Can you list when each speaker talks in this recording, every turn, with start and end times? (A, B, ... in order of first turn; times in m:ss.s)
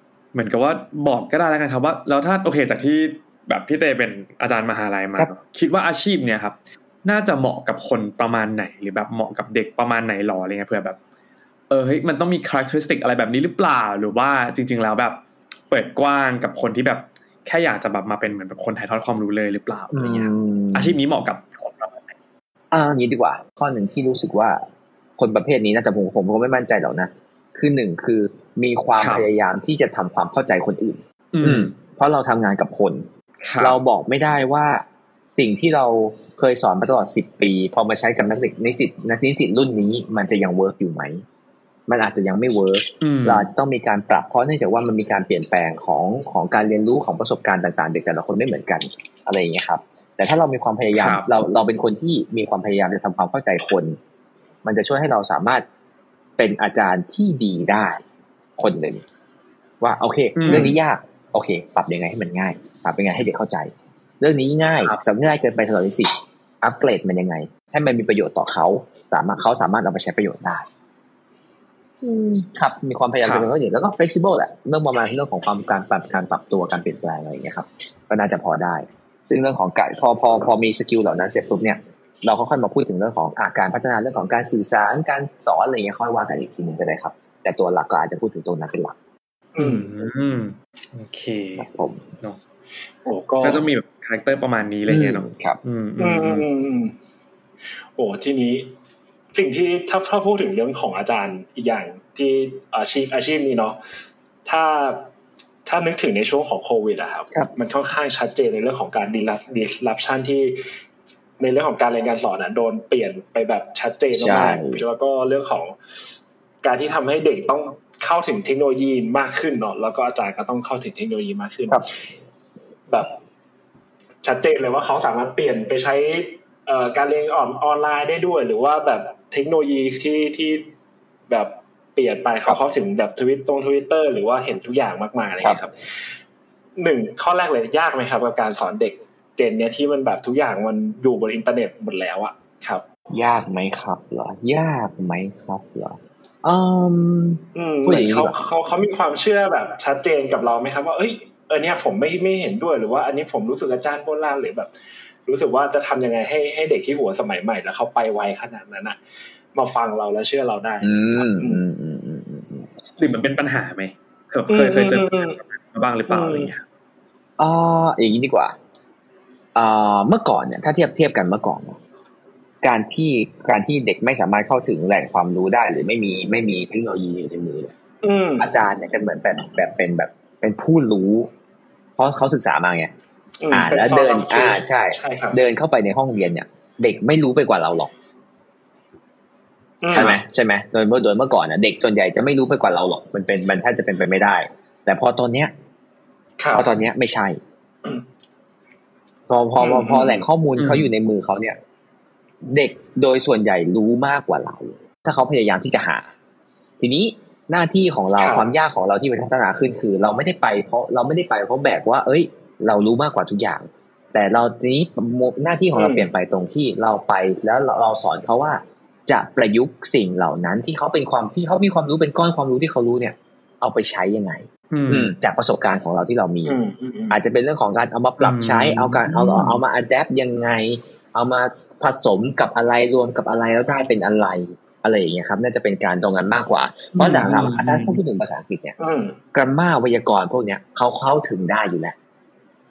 0:00.3-0:11.0 A
0:11.7-0:22.1 A
0:19.9-0:21.0 B
0:22.7-0:24.6 B
0:25.2-0:33.1 B
0:29.0-0:29.3 A
0:31.3-0:31.7 A
0:33.4-0:33.8 A
0:33.6-0:34.8 B
0:35.4-0:41.2 B
0:41.9-0:54.0 B
0:43.0-0:43.4 A
0:50.9-0:51.3 A
0:54.6-0:55.6 B
0:56.4-0:58.0 B
0:58.6-0:59.0 B
0:59.8-1:10.6 B
1:00.4-1:00.8 A
1:12.0-1:28.9 B
1:29.5-1:29.9 C
1:29.6-1:31.6 A
1:31.6-1:32.0 B
1:33.0-1:33.6 C
1:33.4-1:36.5 A
1:34.9-1:35.6 B
1:36.0-1:36.9 C
1:38.0-1:38.7 C
1:39.3-1:43.8 C
1:44.4-1:45.1 C
1:45.6-1:50.7 C
1:51.4-2:02.1 C
1:54.1-1:54.8 B
2:02.9-2:03.1 C
2:04.2-2:10.7 C
2:11.3-2:16.2 C
2:16.8-2:22.8 C
2:23.1-2:28.4 B
2:27.5-2:34.7 C
2:35.2-2:39.0 C
2:39.5-2:41.6 C
2:40.8-2:42.7 B
2:43.0-2:46.6 A
2:44.5-2:45.4 C
2:46.1-2:46.5 C
2:47.4-2:48.5 B
2:49.5-2:51.8 B
2:52.6-2:57.8 B
2:58.0-2:58.5 C
2:58.4-3:01.3 B
3:02.0-3:02.9 B
3:03.4-3:05.4 C
3:03.5-3:07.9 B
3:09.8-3:10.2 C
3:09.9-3:15.5 B
3:16.4-3:16.7 C
3:16.5-3:17.4 B
3:19.3-3:21.6 B
3:19.6-3:20.2 C
3:20.6-3:20.9 A
3:22.4-3:26.1 B
3:26.8-3:46.6 B
3:28.2-3:28.5 C
3:35.7-3:36.1 C
3:44.7-3:45.1 A
3:46.5-3:47.2 C
3:47.1-3:58.8 B
3:48.2-3:49.6 A
3:56.9-3:58.0 A
3:58.8-3:59.2 C
3:59.3-4:01.9 B